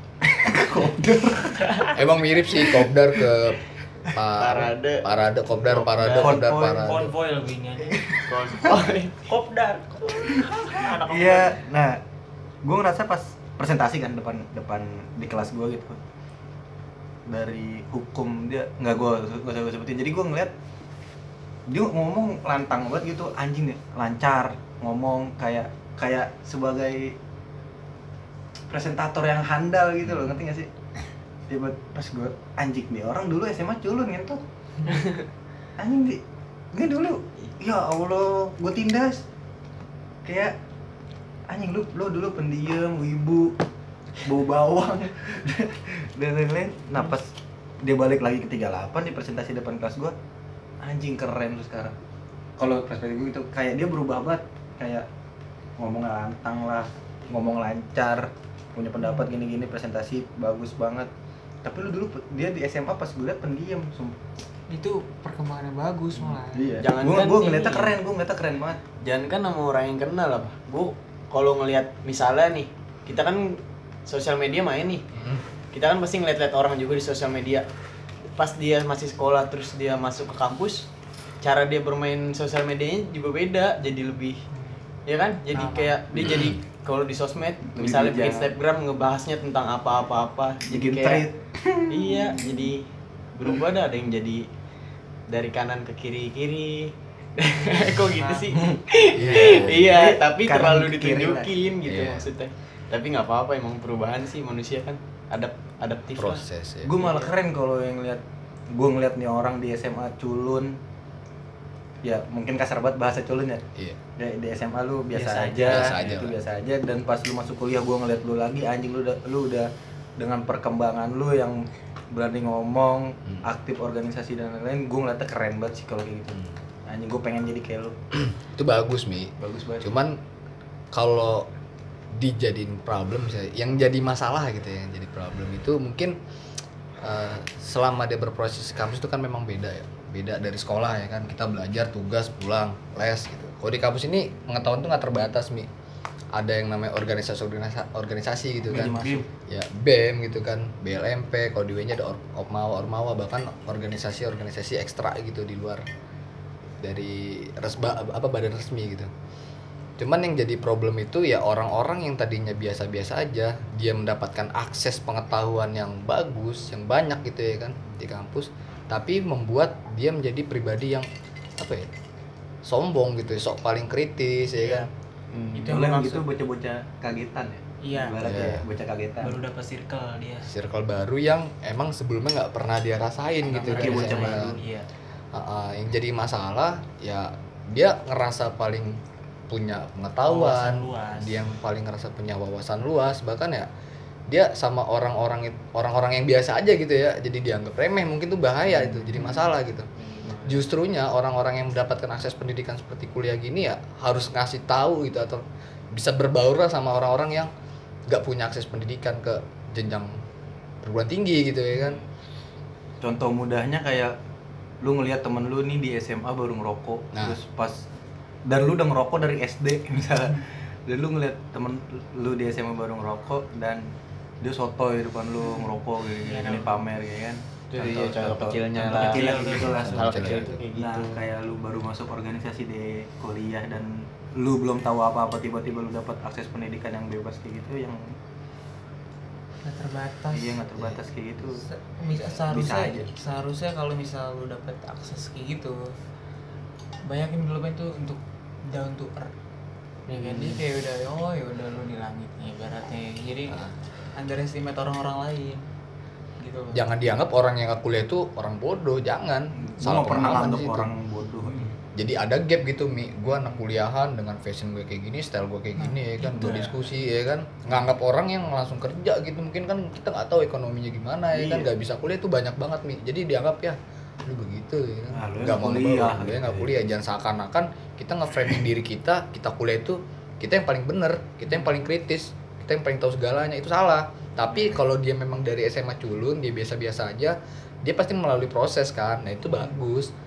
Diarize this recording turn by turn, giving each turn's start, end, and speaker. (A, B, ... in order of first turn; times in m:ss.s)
0:00.5-0:01.6 A
0:02.0-0:03.6 B
0:04.1-0:07.1 B
0:04.4-0:05.0 C
0:05.6-0:06.4 C
0:06.1-0:07.0 A
0:06.6-0:08.0 D
0:08.2-0:09.3 C
0:09.2-0:11.5 D
0:10.3-0:11.0 E
0:10.9-0:12.0 A
0:12.6-0:16.0 A
0:17.3-0:20.5 A
0:21.7-0:27.2 A
0:28.7-0:30.7 A
0:30.0-0:30.3 B
0:31.5-0:34.4 A
0:35.8-0:36.2 A
0:36.7-0:39.2 A
0:40.2-0:40.6 A
0:41.5-0:43.6 A
0:44.2-0:47.3 A
0:47.8-0:50.2 A
0:50.8-0:52.0 A
0:52.6-0:55.1 A
0:55.8-1:01.1 A
1:01.6-1:04.2 A
1:04.7-1:06.8 E
1:06.5-1:08.8 A
1:06.7-1:08.0 C
1:09.0-1:15.0 C
1:15.7-1:17.7 C
1:18.3-1:20.9 C
1:21.4-1:24.4 C
1:24.6-1:24.8 E
1:25.1-1:31.3 C
1:25.5-1:26.0 E
1:26.2-1:26.6 B
1:27.7-1:28.5 A
1:30.7-1:32.5 A
1:31.9-1:34.5 C
1:35.3-1:46.4 C
1:38.7-1:41.5 A
1:39.1-1:39.9 B
1:41.8-1:42.3 B
1:46.2-1:47.0 B
1:46.8-1:50.8 A
1:52.0-1:53.6 A
1:54.2-2:08.0 A
1:55.1-1:56.0 D
1:55.7-1:56.4 B
2:08.2-2:10.2 B
2:09.4-2:09.9 A
2:10.9-2:11.5 B
2:12.1-2:16.2 B
2:17.0-2:25.7 B
2:26.3-2:35.8 B
2:28.7-2:29.3 A
2:28.7-2:29.2 D
2:36.8-2:39.1 B
2:40.0-2:51.1 B
2:51.6-2:51.9 B
2:52.6-2:54.9 B
2:54.6-2:54.9 E
2:55.3-2:55.8 C
2:55.5-2:56.3 E
2:55.7-2:59.4 A
2:57.8-2:58.2 E
2:58.2-2:58.6 B
2:59.2-3:00.5 D
3:00.4-3:04.6 B
3:03.6-3:04.9 D
3:03.6-3:04.6 A
3:05.3-3:13.7 B
3:10.3-3:11.4 E
3:14.3-3:19.9 B
3:20.0-3:20.6 C
3:20.4-3:27.5 B
3:28.1-3:30.1 B
3:30.8-3:32.0 B
3:33.0-3:34.1 A
3:34.8-3:37.8 A
3:38.5-3:43.9 A
3:44.4-3:58.2 A
3:45.4-3:46.8 E
3:47.7-3:51.2 C
3:48.8-3:49.8 D
3:49.8-3:50.6 B
3:59.6-4:00.8 E
4:00.3-4:01.6 A
4:01.6-4:06.0 E
4:02.2-4:03.1 A
4:07.0-4:09.3 E
4:10.1-4:10.6 C
4:10.1-4:13.6 E
4:13.5-4:13.8 B
4:14.2-4:15.6 E
4:16.4-4:16.9 E
4:16.7-4:20.9 B
4:19.6-4:21.7 A
4:22.0-4:50.1 B
4:25.8-4:26.9 E
4:31.3-4:31.7 A
4:35.1-4:36.7 A